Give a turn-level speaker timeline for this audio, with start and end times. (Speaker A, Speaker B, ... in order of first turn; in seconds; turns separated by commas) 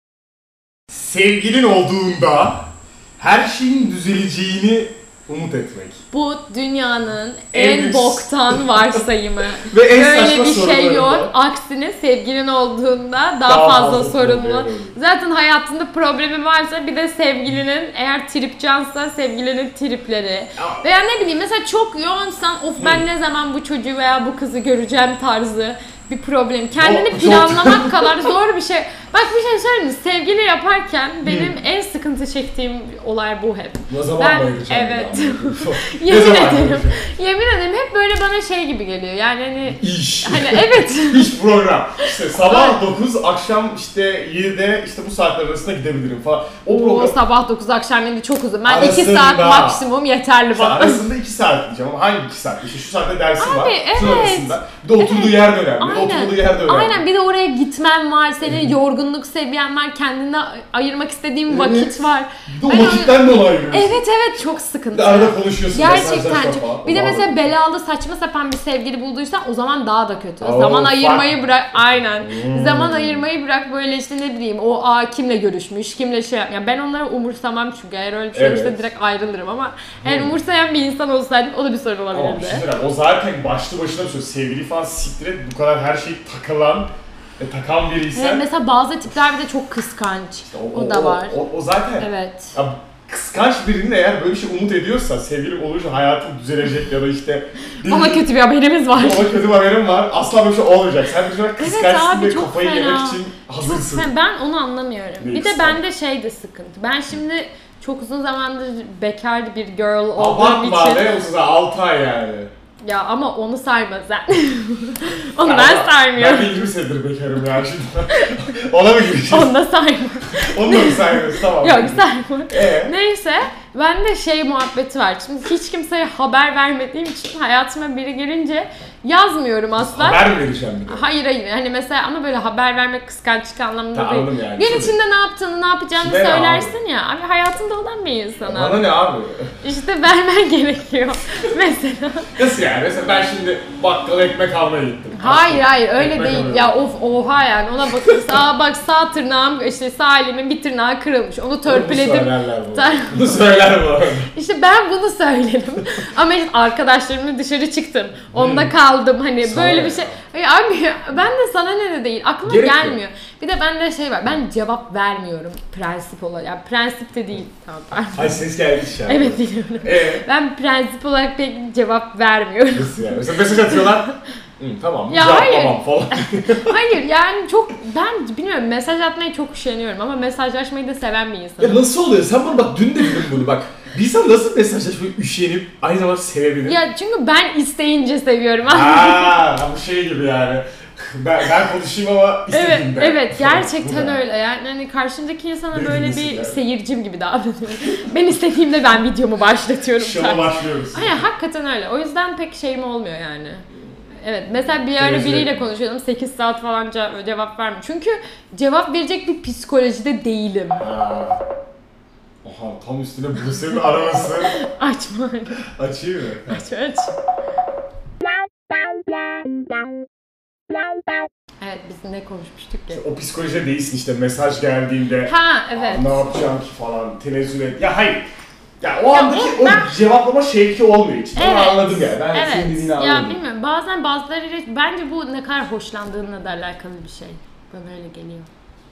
Speaker A: 0.9-2.7, Speaker A: 3.2-6.0, Speaker B: 6.1-41.3, Speaker A: 7.5-9.0, Speaker A: 9.7-11.3, Speaker A: 13.5-15.0, Speaker A: 20.6-20.8, Speaker A: 22.8-23.0, Speaker A: 26.8-28.2, Speaker A: 31.2-31.5, Speaker A: 33.9-37.0, Speaker A: 39.7-47.2, Speaker B: 42.0-42.8, Speaker B: 46.7-51.0, Speaker A: 48.7-49.8, Speaker A: 50.5-57.0, Speaker B: 53.4-82.6, Speaker A: 58.4-58.8, Speaker A: 61.5-64.0, Speaker A: 64.9-67.5, Speaker A: 70.4-71.3, Speaker A: 72.2-73.2, Speaker A: 78.3-78.9, Speaker A: 80.0-80.3, Speaker A: 82.1-88.4, Speaker B: 88.1-91.4, Speaker A: 90.5-98.2, Speaker B: 92.0-92.6, Speaker B: 97.8-99.3, Speaker A: 98.9-104.1, Speaker B: 101.6-111.1, Speaker A: 105.2-105.8, Speaker A: 110.2-112.5, Speaker B: 112.8-116.6, Speaker A: 115.4-119.5, Speaker B: 119.2-130.3, Speaker A: 120.3-122.9, Speaker A: 129.8-131.1, Speaker B: 130.9-138.8, Speaker A: 133.9-135.0, Speaker A: 136.0-136.8, Speaker A: 138.4-139.5, Speaker B: 139.6-142.3, Speaker A: 142.4-146.8, Speaker B: 145.1-153.5, Speaker A: 147.9-148.4, Speaker A: 151.7-154.3, Speaker B: 154.3-168.4, Speaker A: 158.3-158.7, Speaker A: 159.4-160.2, Speaker A: 162.5-163.0, Speaker A: 168.1-170.2, Speaker B: 169.1-174.2, Speaker A: 172.8-174.1, Speaker A: 174.6-176.8, Speaker B: 175.1-181.9, Speaker A: 181.6-186.8, Speaker B: 186.6-189.3, Speaker A: 188.7-194.2, Speaker B: 192.5-203.7, Speaker A: 195.7-196.6, Speaker A: 199.9-201.2, Speaker B: 204.2-210.8, Speaker A: 204.9-205.6, Speaker A: 210.8-211.4, Speaker A: 212.4-214.5, Speaker B: 214.1-215.6, Speaker A: 215.8-216.6, Speaker B: 216.5-217.1, Speaker B: 221.6-223.0, Speaker A: 222.9-228.3, Speaker B: 225.2-226.3, Speaker A: 228.8-233.4, Speaker B: 229.1-229.9, Speaker B: 231.3-238.5